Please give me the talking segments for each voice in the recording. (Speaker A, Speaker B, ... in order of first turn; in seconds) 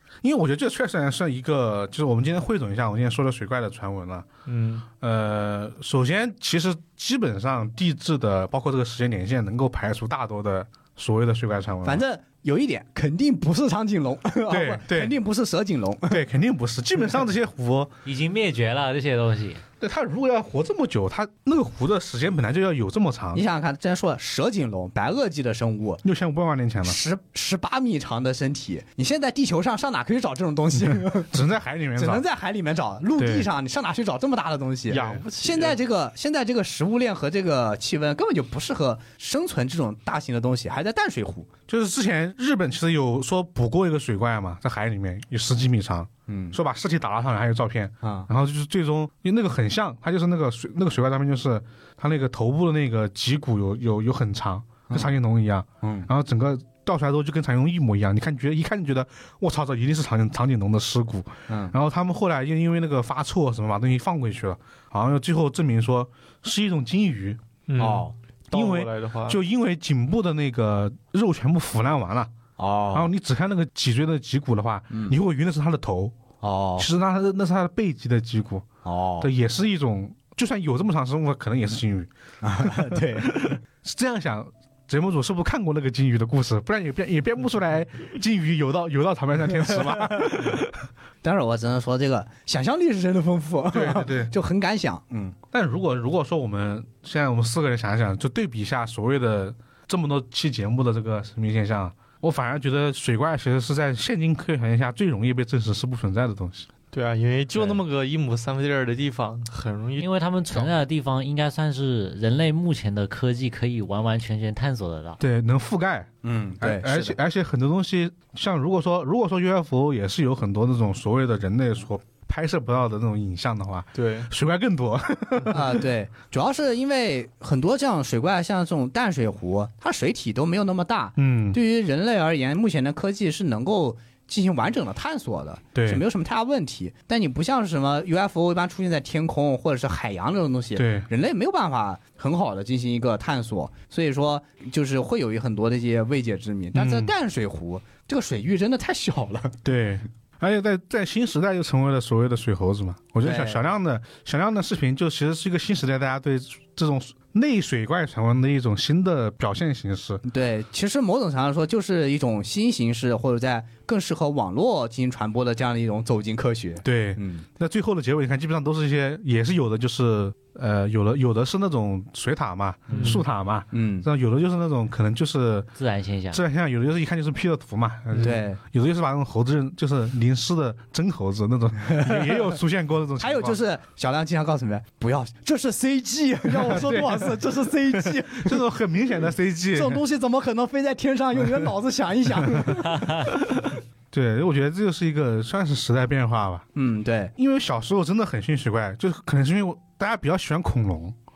Speaker A: 0.2-4.3, 4.9-12.0, 14.5-15.1, 16.1-17.9, 19.8-23.4, 26.0-27.0, 30.8-32.2, 33.2-33.5, 41.7-67.4, 68.5-72.3, 72.9-76.2, 76.8-78.7, 79.2-90.8, 93.7-94.3, 95.5-106.7, 115.2-125.8, 131.2-131.6, 135.7-136.0, 140.7-141.1, 146.7-147.1, 149.6-160.2, 166.8-175.7, 176.3-183.6, 186.5-190.0, 192.5-196.7, 197.3-201.2
Speaker B: 4.5-4.8, 34.9-35.8, 67.7-69.4, 106.9-110.7, 123.9-124.3, 172.9-173.2, 178.1-178.4
Speaker C: 11.8-16.2, 23.3-26.0, 26.8-31.4, 32.0-41.5, 46.3-46.6, 48.0-48.3, 55.8-56.1, 61.5-61.7, 67.8-68.1, 72.6-73.1, 74.9-75.2, 76.4-76.9, 78.8-79.3, 82.4-83.5, 89.9-90.2, 91.2-95.4, 116.2-117.2, 125.5-149.6, 153.2-153.6, 160.2-167.4, 173.7-174.1, 178.2-178.6, 181.9-182.6, 183.2-188.6, 189.7-193.3, 196.7-197.3
Speaker D: 18.0-19.6, 110.0-115.2, 175.8-176.4